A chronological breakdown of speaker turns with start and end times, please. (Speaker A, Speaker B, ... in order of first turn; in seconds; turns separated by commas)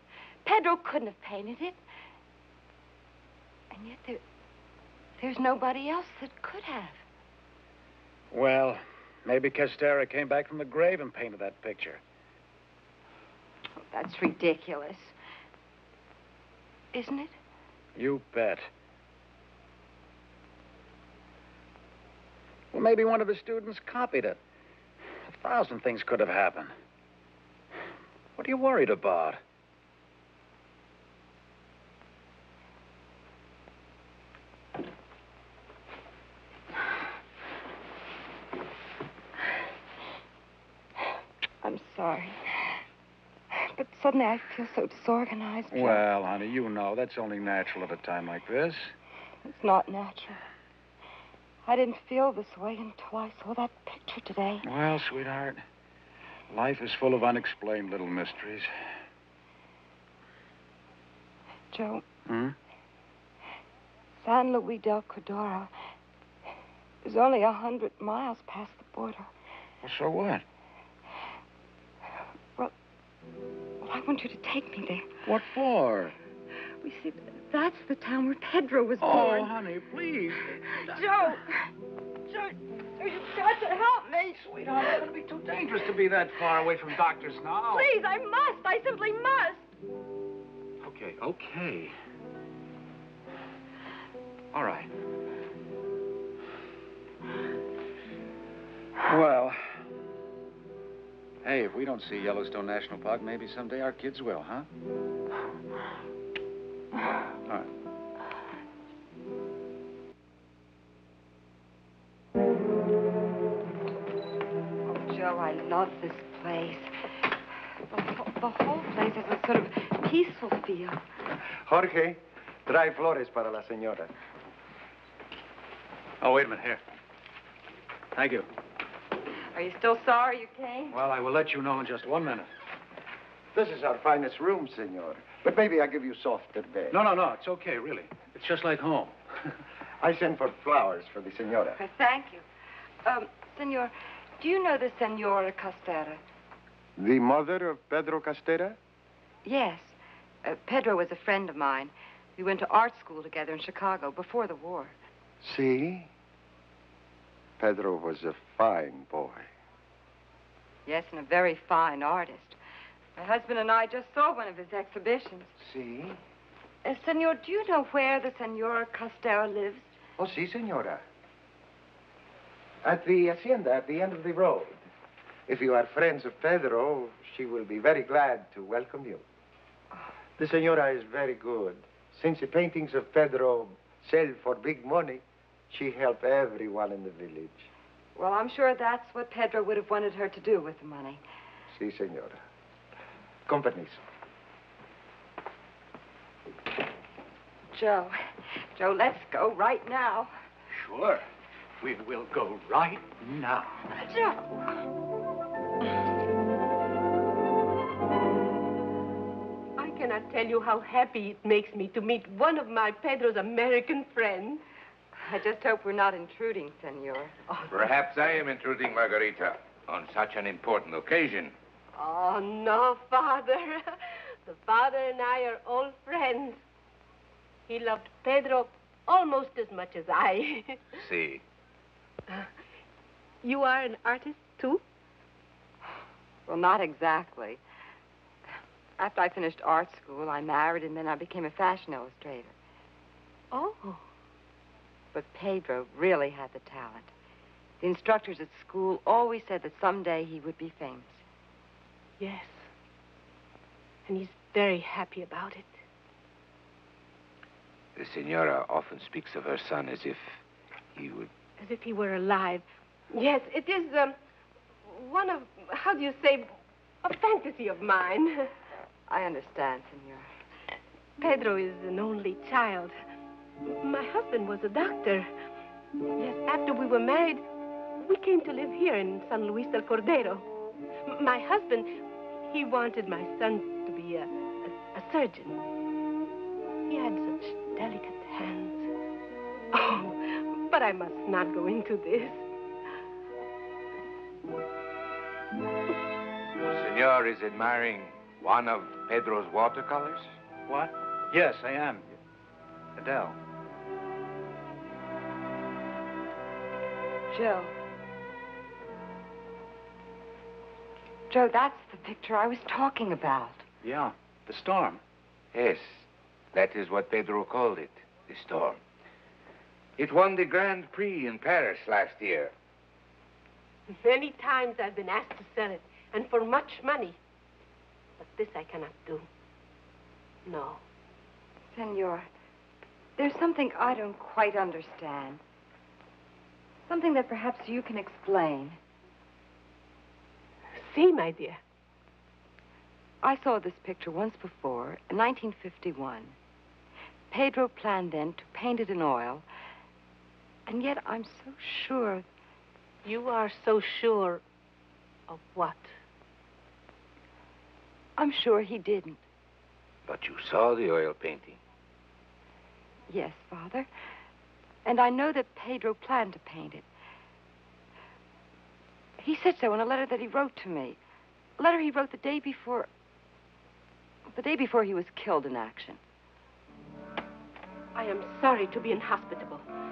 Speaker A: 0.4-1.8, Speaker A: 3.7-4.2, Speaker A: 5.2-7.0, Speaker B: 8.3-12.0, Speaker A: 13.9-15.1, Speaker A: 16.9-17.3, Speaker B: 17.9-18.7, Speaker B: 22.7-24.4, Speaker B: 25.3-26.7, Speaker B: 28.4-29.4, Speaker A: 41.6-42.8, Speaker A: 43.5-46.0, Speaker B: 45.7-48.9, Speaker A: 49.4-50.4, Speaker A: 51.6-54.6, Speaker B: 54.6-55.6, Speaker B: 56.5-58.7, Speaker A: 61.7-62.0, Speaker B: 62.3-62.5, Speaker A: 64.2-65.7, Speaker A: 67.0-69.3, Speaker B: 69.8-70.4, Speaker A: 73.8-75.2, Speaker B: 75.2-76.1, Speaker A: 76.8-79.5, Speaker B: 79.0-81.4, Speaker A: 80.9-81.7, Speaker A: 82.3-84.3, Speaker B: 84.3-87.9, Speaker A: 87.7-89.7, Speaker B: 90.8-91.9, Speaker B: 94.5-94.9, Speaker B: 99.0-99.6, Speaker B: 101.4-104.7, Speaker A: 114.8-116.9, Speaker A: 117.9-121.0, Speaker C: 121.6-124.1, Speaker B: 126.2-126.8, Speaker B: 128.1-128.4, Speaker A: 129.5-131.0, Speaker B: 130.9-132.5, Speaker C: 133.5-137.0, Speaker B: 136.9-139.1, Speaker C: 140.0-141.8, Speaker A: 141.8-142.4, Speaker A: 143.0-146.2, Speaker C: 147.0-148.8, Speaker A: 149.4-154.9, Speaker C: 155.4-156.1, Speaker C: 157.6-159.5, Speaker A: 160.8-162.6, Speaker A: 163.2-165.5, Speaker C: 165.6-166.2, Speaker A: 166.8-169.9, Speaker C: 170.2-171.0, Speaker C: 172.8-174.8, Speaker C: 175.5-179.2, Speaker C: 180.4-187.7, Speaker A: 188.1-191.2, Speaker C: 191.7-192.4, Speaker C: 193.4-194.0, Speaker A: 197.7-200.3, Speaker B: 200.7-201.2, Speaker B: 201.8-203.8, Speaker A: 203.9-204.7, Speaker D: 209.8-214.6, Speaker A: 215.2-217.3, Speaker E: 217.7-221.5, Speaker D: 221.9-226.6, Speaker D: 227.7-230.8, Speaker E: 230.9-231.4, Speaker D: 233.4-234.8, Speaker A: 236.5-237.6, Speaker A: 239.0-242.5, Speaker D: 243.5-244.0, Speaker A: 245.1-247.1, Speaker A: 247.8-251.2, Speaker D: 252.2-252.6, Speaker D: 254.1-255.8, Speaker E: 257.9-260.4, Speaker E: 260.9-261.3, Speaker D: 261.6-264.2, Speaker D: 264.8-268.5, Speaker A: 269.1-270.3, Speaker D: 271.2-272.9, Speaker D: 273.6-275.3, Speaker D: 276.1-277.4, Speaker D: 278.0-280.4, Speaker D: 281.1-285.6, Speaker D: 286.9-288.9, Speaker D: 289.7-292.4, Speaker E: 296.6-300.3, Speaker B: 300.7-302.1, Speaker B: 302.9-303.4, Speaker A: 307.3-307.7, Speaker A: 311.3-313.6, Speaker B: 313.8-315.0, Speaker E: 315.5-318.8, Speaker E: 320.0-322.5, Speaker D: 323.9-327.2, Speaker D: 328.2-329.3, Speaker D: 330.4-330.8, Speaker A: 331.7-332.3, Speaker A: 333.2-335.4, Speaker A: 336.9-338.8, Speaker D: 340.7-341.6, Speaker A: 343.2-346.4, Speaker A: 347.3-349.4, Speaker A: 350.7-352.2, Speaker D: 353.0-354.4, Speaker D: 355.3-355.9, Speaker A: 358.2-359.2, Speaker E: 360.1-361.6, Speaker A: 363.1-363.9, Speaker A: 364.8-366.8, Speaker A: 369.2-371.0, Speaker A: 371.6-372.9, Speaker A: 374.3-376.0, Speaker D: 377.9-379.6